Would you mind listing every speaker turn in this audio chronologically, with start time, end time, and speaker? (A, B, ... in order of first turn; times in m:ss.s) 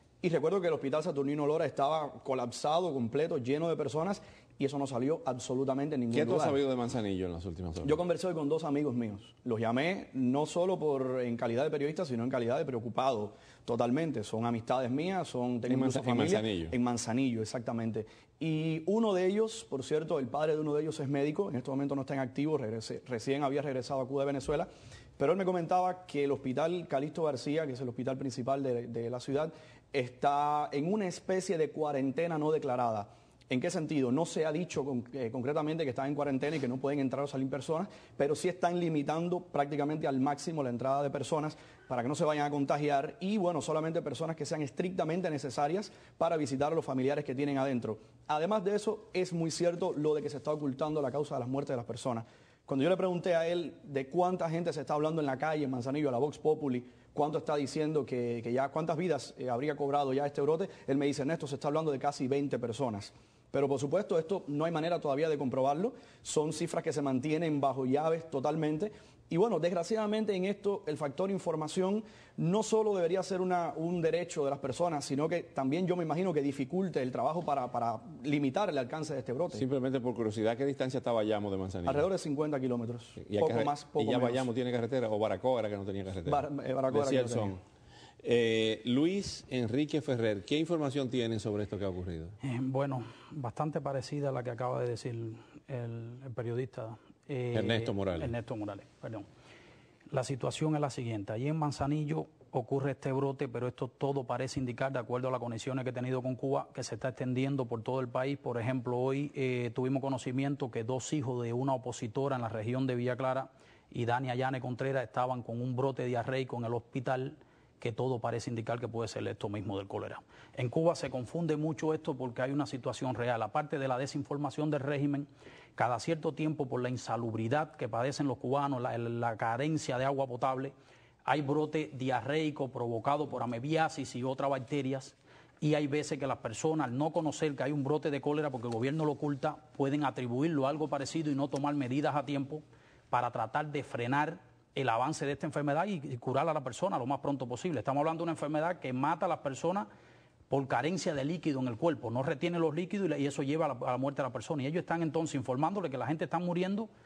0:00.2-0:06.6 A
0:06.1-0:08.0 B
0:07.8-1:19.6 A
0:15.7-0:16.7 B
1:19.5-1:22.0 B
1:21.9-1:24.5 A
1:23.2-1:27.6 B
1:26.3-1:27.5 A
1:28.2-1:32.4 B
1:32.4-1:39.3 C
1:37.5-1:38.3 B
1:40.1-2:10.7 C
2:11.3-2:29.9 C
2:30.5-2:36.9 C